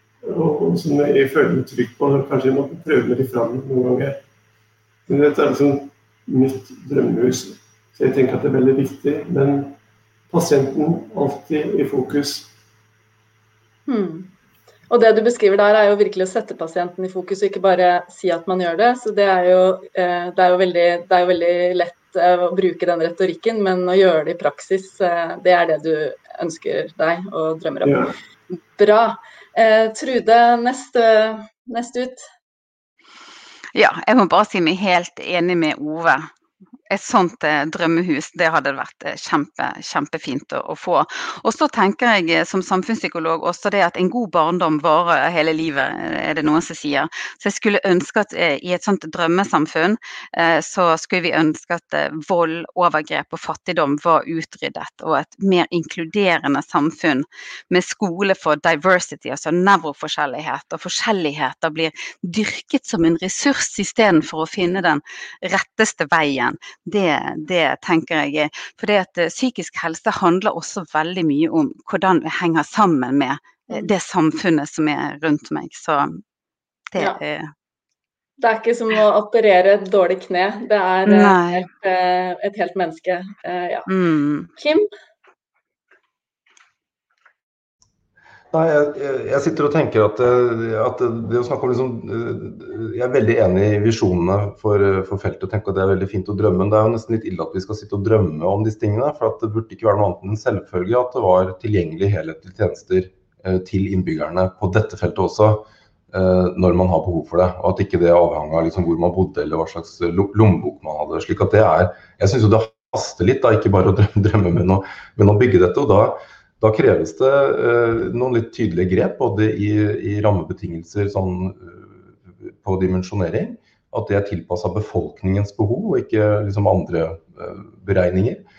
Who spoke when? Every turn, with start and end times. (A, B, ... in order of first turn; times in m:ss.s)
0:00.2-0:04.2 A
0:05.1-0:09.7 A
0:10.3-0:12.5 A
0:13.9-0:14.3 B
0:14.9-0:28.0 B
0:27.8-0:28.1 A
0:28.8-0:32.3 B
0:33.7-0:36.3 C
0:36.9-1:16.2 C
1:16.9-1:17.5 C
1:18.4-1:23.9 B
1:21.0-1:21.7 C
1:23.9-1:24.5 C
1:24.6-1:24.9 B
1:28.5-2:08.4 D